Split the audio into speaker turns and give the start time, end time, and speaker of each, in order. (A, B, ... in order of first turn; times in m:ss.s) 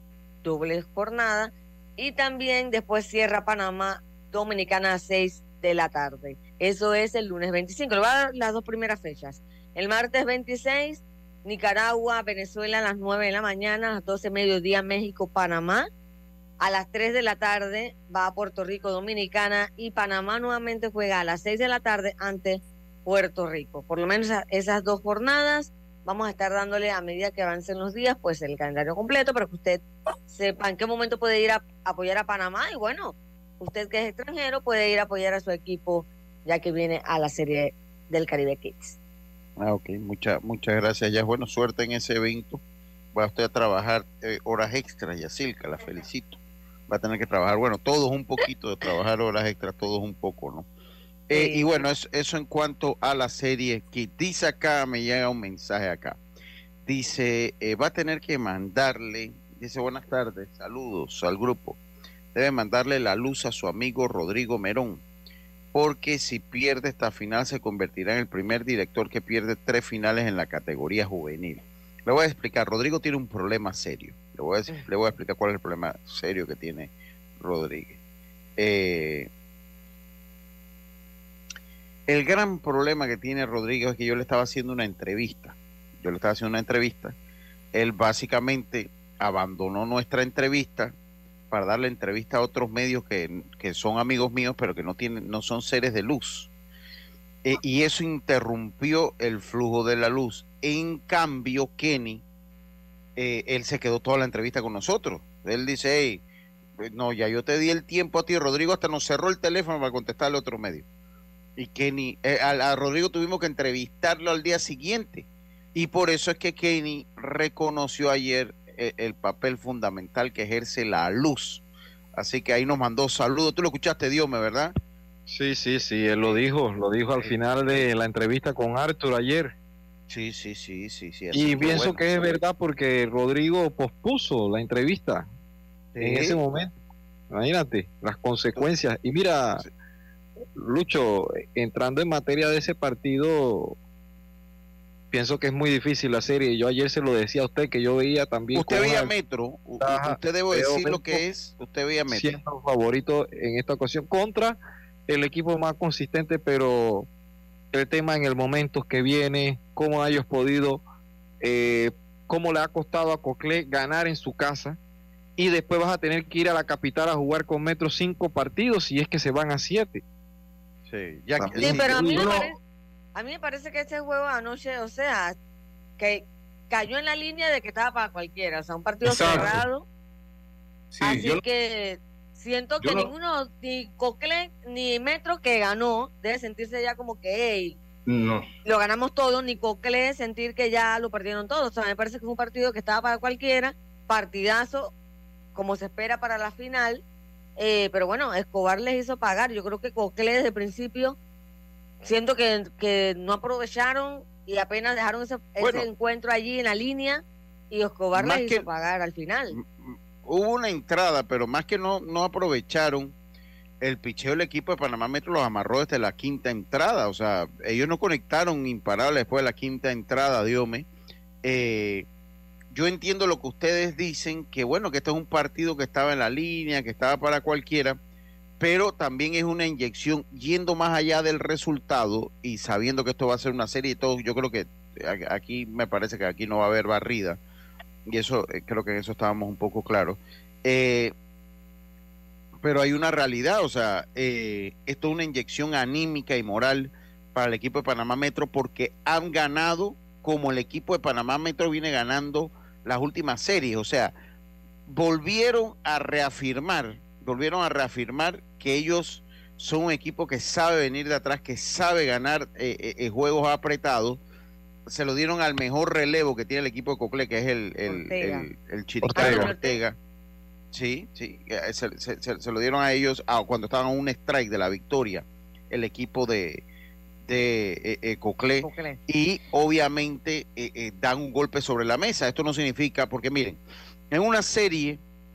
0:00.4-0:15.9 A
0:16.6-0:39.0 A
0:39.6-0:42.6 B
0:43.1-0:50.6 B
0:51.3-0:56.2 B
0:51.3-0:51.8 A
0:56.8-1:01.8 B
1:02.3-1:05.0 B
1:05.7-1:18.0 B
1:18.6-1:19.3 B
1:22.1-1:27.1 B
1:27.7-1:30.9 B
1:31.5-1:36.5 B
1:37.4-1:42.2 B
1:43.2-1:46.2 B
1:46.8-1:50.8 B
1:51.6-2:01.6 B
2:02.1-2:04.7 B
2:05.3-2:09.5 C
2:10.1-2:12.0 B
2:11.3-2:15.3 C
2:15.9-2:16.4 B
2:16.0-2:16.7 C
2:17.3-2:19.6 C
2:20.6-2:23.8 C
2:25.1-2:29.1 C
2:28.5-2:32.3 B
2:29.8-2:31.2 C
2:32.1-2:37.1 C
2:37.7-2:40.8 C
2:41.4-2:44.8 C
2:45.4-2:50.0 C
2:50.9-2:52.2 B
2:51.6-2:52.6 A
2:51.7-2:52.5 D
2:53.1-2:55.4 A
2:56.0-2:59.8 A
2:59.0-2:59.5 D
2:59.3-2:59.6 B
3:00.9-3:01.4 D
3:01.0-3:07.8 A
3:02.8-3:03.1 D
3:08.0-3:08.4 D
3:08.6-3:14.9 A
3:15.5-3:17.0 A
3:17.6-3:21.2 A
3:22.0-3:29.6 A
3:25.6-3:25.9 B
3:28.1-3:28.6 B
3:29.5-3:33.1 B
3:33.8-3:40.9 B
3:41.4-3:42.1 B
3:42.7-3:48.0 B
3:48.6-3:57.4 B
3:58.1-4:01.1 B
4:02.6-4:14.1 B
4:14.8-4:24.2 B
4:24.9-4:30.0 B
4:27.9-4:28.4 A
4:29.1-4:29.3 C
4:29.1-4:29.8 A
4:30.7-4:36.6 B
4:37.2-4:43.6 B
4:38.6-4:39.0 A
4:44.1-4:45.0 B